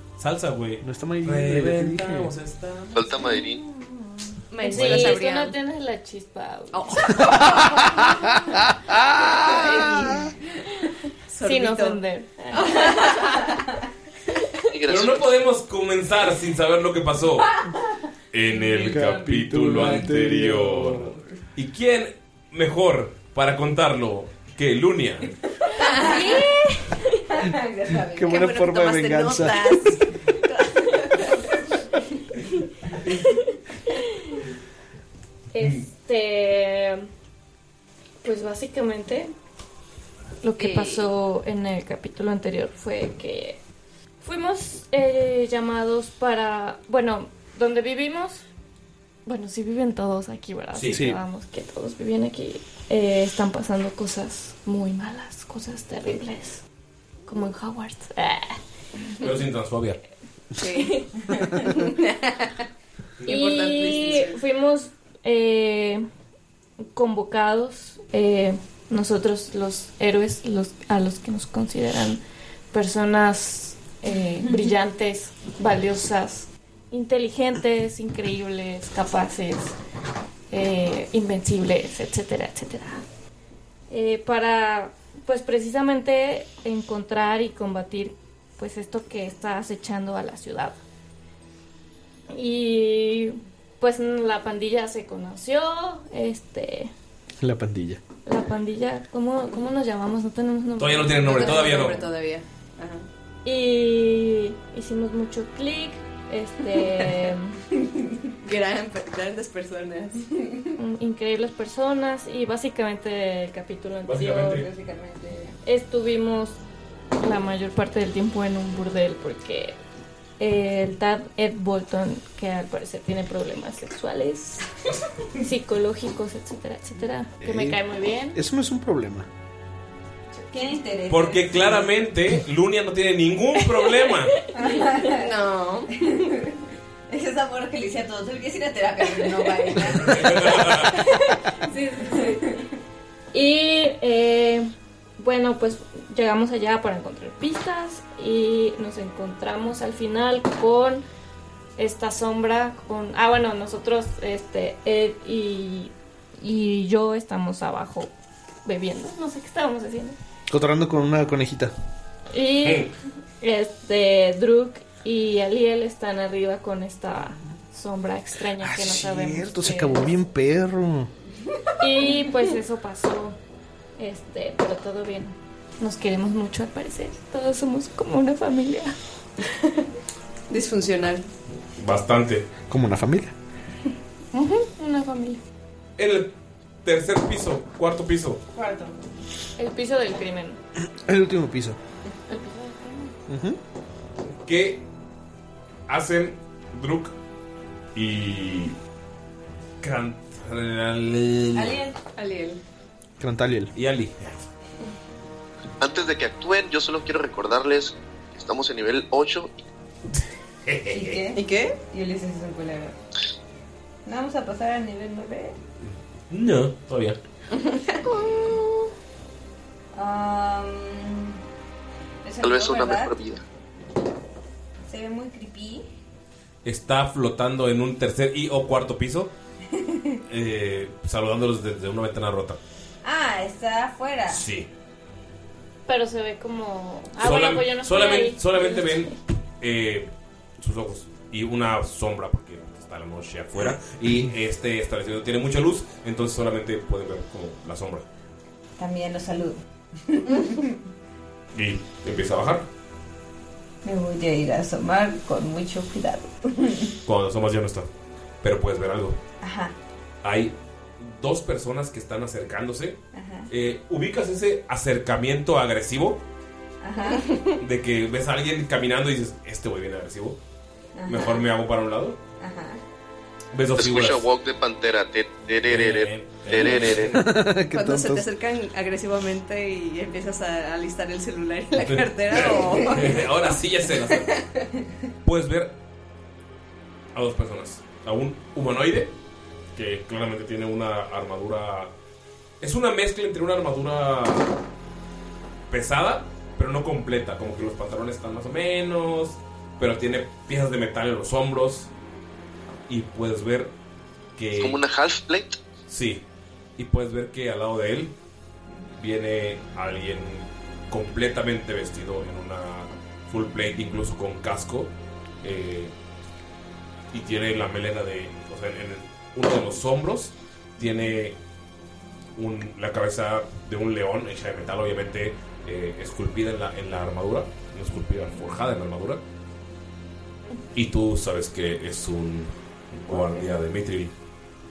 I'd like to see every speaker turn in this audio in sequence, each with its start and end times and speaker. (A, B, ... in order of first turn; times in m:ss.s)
0:00.2-0:03.2 A
0:00.8-0:02.3 B
0:02.9-0:03.6 C
0:03.1-0:08.4 D
0:04.5-0:05.5 E
0:04.7-0:05.1 A
0:06.7-0:07.8 E
0:07.5-0:07.8 B
0:08.9-0:10.2 B
0:09.1-0:10.2 D
0:10.8-0:13.4 D
0:11.3-0:12.0 E
0:12.5-0:13.5 E
0:14.7-0:15.3 C
0:14.9-0:17.6 A
0:18.3-0:25.4 A
0:18.5-0:20.2 F
0:18.8-0:21.2 B
0:25.8-0:26.4 E
0:25.8-0:28.5 F
0:25.9-0:27.0 D
0:28.1-0:29.9 B
0:28.3-0:31.4 E
0:33.9-0:34.4 D
0:35.5-0:37.1 D
0:38.2-0:39.3 D
0:40.4-0:43.6 D
0:40.6-0:41.0 E
0:44.2-0:48.4 D
0:49.2-0:56.6 D
0:50.7-0:51.0 A
0:50.9-0:51.2 B
0:57.3-0:58.6 D
0:59.2-1:00.0 A
1:00.6-1:02.6 E
1:00.7-1:01.1 D
1:03.2-1:04.4 E
1:03.2-1:06.0 D
1:06.9-1:19.8 D
1:20.5-1:23.0 D
1:23.9-1:30.8 D
1:32.3-1:36.9 D
1:37.4-1:38.0 B
1:38.2-1:41.9 D
1:40.8-1:42.1 A
1:41.1-1:43.0 E
1:43.4-1:47.6 D
1:48.4-1:50.2 E
1:50.3-1:50.7 F
1:50.8-1:54.6 D
1:54.0-1:54.7 A
1:54.4-1:55.6 F
1:55.6-1:56.6 D
1:57.2-1:59.8 D
2:00.4-2:04.6 D
2:05.4-2:08.4 D
2:07.4-2:07.8 B
2:08.3-2:09.3 B
2:10.4-2:11.9 F
2:11.1-2:14.3 A
2:14.5-2:15.3 F
2:15.1-2:15.9 E
2:15.9-2:22.6 F
2:19.8-2:21.0 A
2:21.7-2:22.3 D
2:23.3-2:31.0 D
2:31.8-2:38.1 D
2:38.6-2:40.2 D
2:40.5-2:41.7 B
2:42.3-2:50.1 D
2:48.6-2:51.1 B
2:51.8-2:53.4 D
2:54.0-2:59.0 D
3:00.5-3:01.2 E
3:01.8-3:02.4 A
3:02.7-3:03.3 B
3:04.3-3:05.4 D
3:06.0-3:06.3 A
3:06.8-3:08.4 A
3:08.6-3:08.8 F
3:09.6-3:10.6 D
3:11.0-3:11.8 B
3:12.3-3:13.1 D
3:13.3-3:13.6 B
3:14.4-3:14.8 A
3:15.9-3:17.2 A
3:17.9-3:18.7 A
3:19.8-3:21.8 A
3:21.5-3:22.0 F
3:22.2-3:22.6 E
3:23.2-3:23.7 B
3:23.7-3:24.4 A
3:25.8-3:29.6 C
3:30.6-3:31.2 A
3:30.9-3:32.9 F
3:31.3-3:31.8 E
3:34.0-3:35.6 F
3:35.9-3:37.2 A
3:37.5-3:38.0 E
3:39.9-3:41.4 F
3:42.2-3:43.1 F
3:42.4-3:43.4 C
3:44.9-3:45.8 F
3:46.6-3:49.3 A
3:49.7-3:50.2 F
3:50.3-3:52.6 A
3:53.0-3:54.4 F
3:54.3-3:54.7 A
3:55.9-3:59.1 D
3:57.2-4:08.0 A
4:08.8-4:10.8 F
4:11.5-4:12.6 A
4:13.8-4:17.0 F
4:17.0-4:17.9 A
4:18.4-4:19.2 A
4:19.4-4:19.7 F
4:20.2-4:26.2 A
4:23.1-4:23.5 F
4:26.8-4:27.3 F
4:27.6-4:30.4 A
4:31.0-4:31.4 F
4:31.0-4:32.2 A
4:32.4-4:32.8 F
4:33.5-4:34.3 A
4:33.8-4:37.2 C
4:35.6-4:37.2 A
4:37.1-4:38.2 B
4:37.7-4:43.3 E
4:41.8-4:44.4 A
4:42.7-4:43.0 F
4:44.1-4:44.4 E
4:45.2-4:45.7 A
4:47.1-4:49.1 A
4:49.7-4:51.9 A
4:52.6-4:54.6 A
4:55.7-5:01.9 A
5:02.9-5:03.7 A
5:04.4-5:04.8 A
5:04.5-5:05.6 C
5:05.9-5:06.2 A
5:06.8-5:08.1 A
5:09.0-5:14.9 A
5:15.4-5:15.9 A
5:17.1-5:21.4 A
5:22.4-5:29.2 A
5:30.7-5:34.1 A
5:33.1-5:33.5 F